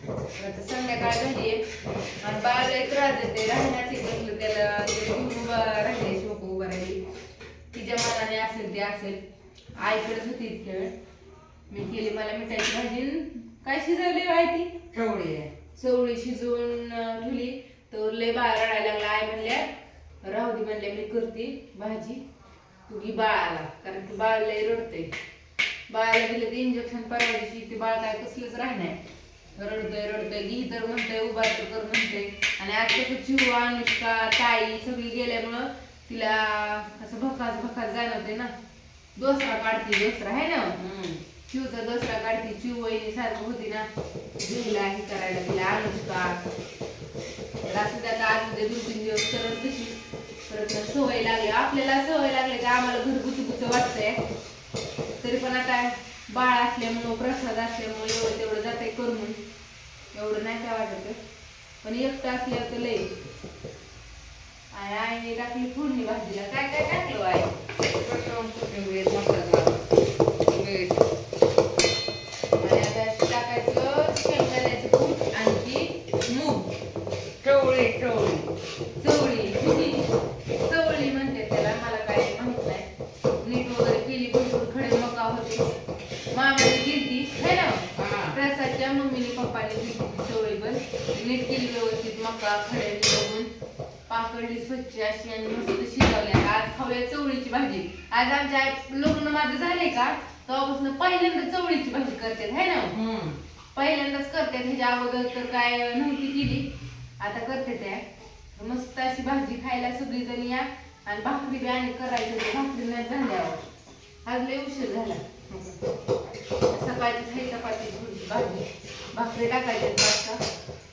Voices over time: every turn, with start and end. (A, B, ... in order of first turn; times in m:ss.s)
0:00.4-0:01.6 A
0:02.2-0:07.0 A
0:07.7-0:09.2 A
0:09.8-0:10.9 A
0:11.7-0:14.8 A
0:14.9-0:15.5 B
0:15.8-0:19.7 A
0:20.2-0:22.2 A
0:22.9-0:25.1 A
0:25.9-0:29.0 A
0:29.6-0:38.5 A
0:39.2-0:40.8 A
0:40.8-0:41.2 B
0:41.5-0:46.4 A
0:47.7-0:50.0 A
0:50.5-0:54.2 A
0:55.2-0:59.4 A
1:00.1-1:01.2 A
1:01.8-1:03.1 A
1:04.7-1:07.5 A
1:08.0-1:09.9 B
1:10.4-1:11.0 B
1:12.6-1:16.7 A
1:17.4-1:18.5 B
1:19.0-1:20.1 A
1:20.6-1:22.9 A
1:23.4-1:25.7 A
1:26.3-1:33.5 A
1:28.0-1:28.4 B
1:34.1-1:43.0 A
1:42.9-1:43.4 B
1:43.8-1:46.7 A
1:47.2-1:53.6 A
1:54.2-1:55.8 A
1:56.7-2:00.4 A